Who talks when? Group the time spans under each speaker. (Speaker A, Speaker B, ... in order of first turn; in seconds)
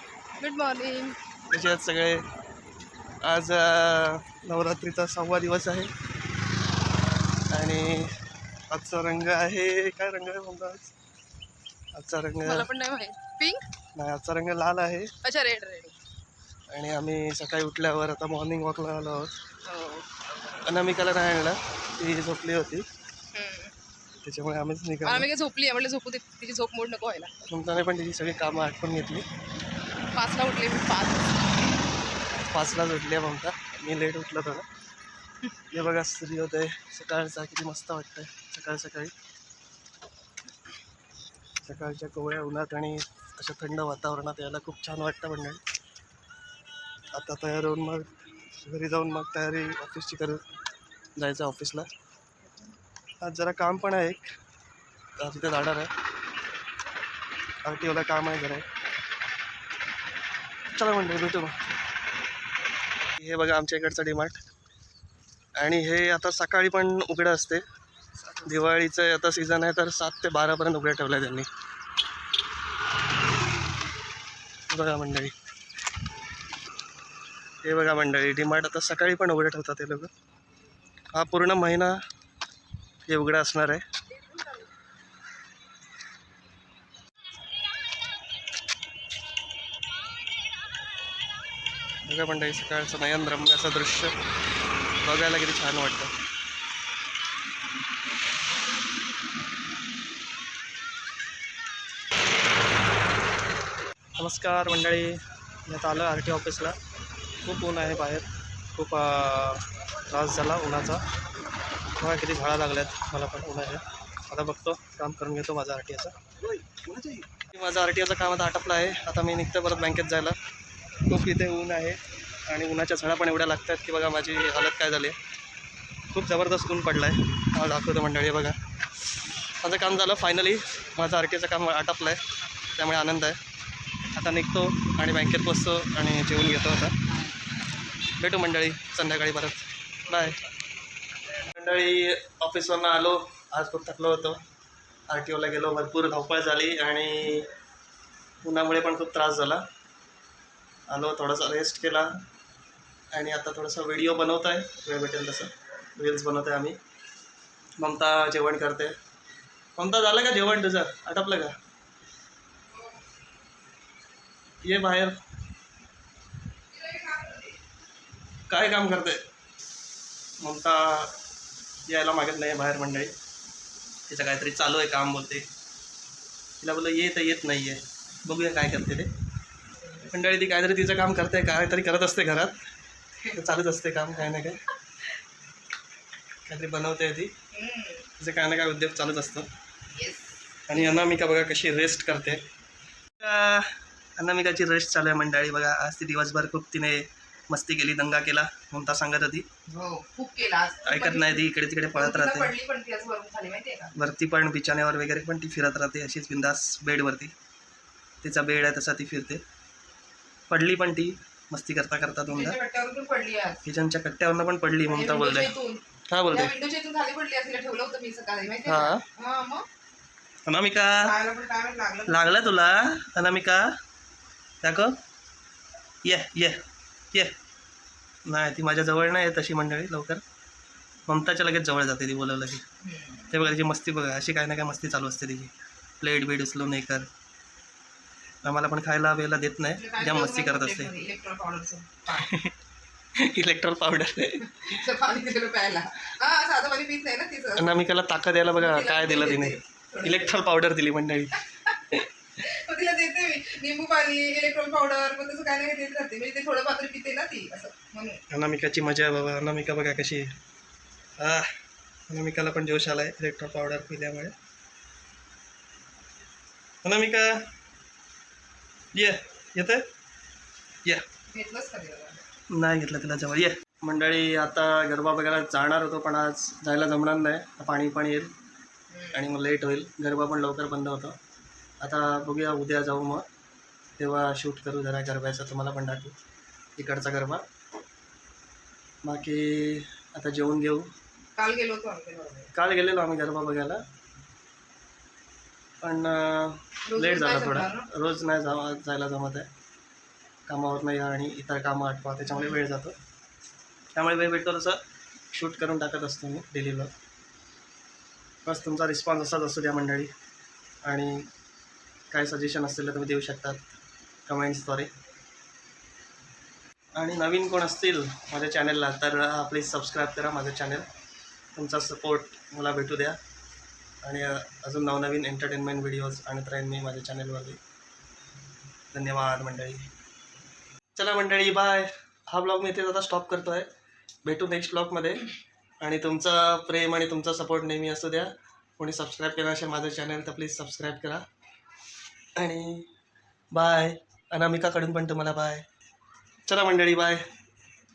Speaker A: 0.4-1.2, 12.4-13.7, 15.2-16.0, 19.6-20.1, 23.3-23.7, 25.0-27.3, 30.1-31.5, 84.3-84.6, 166.7-167.6, 187.5-188.1, 189.9-191.0, 199.7-203.9, 212.3-213.6, 214.8-219.7, 221.0-222.3, 232.8-233.3, 239.8-242.3, 244.5-247.7, 248.6-250.3, 252.4-258.2, 271.3-272.2, 278.9-279.3, 291.4-292.5, 296.9-297.9, 302.3-302.6
Speaker B: 1.5-2.2, 3.2-5.9, 7.5-8.1, 8.7-10.9, 11.9-12.7, 13.9-15.1, 16.7-19.4, 20.6-22.9, 24.2-25.3, 27.5-29.2, 32.4-34.6, 35.7-39.1, 41.6-45.6, 47.1-50.4, 51.2-51.9, 53.2-54.3, 55.2-55.9, 57.6-58.7, 60.7-61.6, 63.1-64.4, 65.6-67.6, 68.4-71.5, 74.7-75.3, 77.6-80.1, 81.1-82.0, 83.1-83.8, 92.0-94.2, 95.0-96.1, 104.2-106.8, 107.4-111.0, 112.0-120.4, 121.1-125.2, 126.1-128.6, 129.6-132.2, 132.8-133.4, 134.1-137.1, 138.2-140.4, 141.4-144.4, 145.1-147.5, 148.4-149.6, 150.9-152.1, 153.1-156.8, 157.8-158.9, 159.8-161.5, 164.6-165.2, 168.5-169.2, 170.4-171.1, 171.9-173.1, 174.1-175.5, 176.6-179.1, 180.1-182.6, 183.3-184.6, 186.4-187.3, 188.2-189.5, 190.7-192.4, 193.2-199.5, 200.8-202.5, 203.9-207.3, 208.2-209.4, 210.5-212.6, 213.6-215.5, 216.1-216.5, 218.7-219.0, 220.5-221.1, 222.1-223.7, 224.6-225.0, 226.0-226.6, 228.2-230.2, 231.1-232.6, 233.3-237.1, 238.4-240.9, 242.1-242.5, 243.2-244.8, 247.6-252.1, 258.3-260.3, 261.2-261.5, 262.1-264.3, 266.8-267.4, 268.9-269.8, 272.5-278.3, 279.1-281.2, 281.8-283.2, 284.0-286.1, 286.8-287.4, 289.0-290.9, 292.5-293.8, 295.8-299.5, 300.5-302.9, 303.9-304.8, 305.3-306.9, 308.4-310.1, 310.8-311.3, 312.1-313.7, 314.3-314.9, 317.0-320.9, 321.5-323.2, 324.0-327.6, 328.9-329.9, 330.9-333.7, 334.2-335.3, 335.8-341.2, 342.4-342.9, 343.5-345.6, 346.5-347.2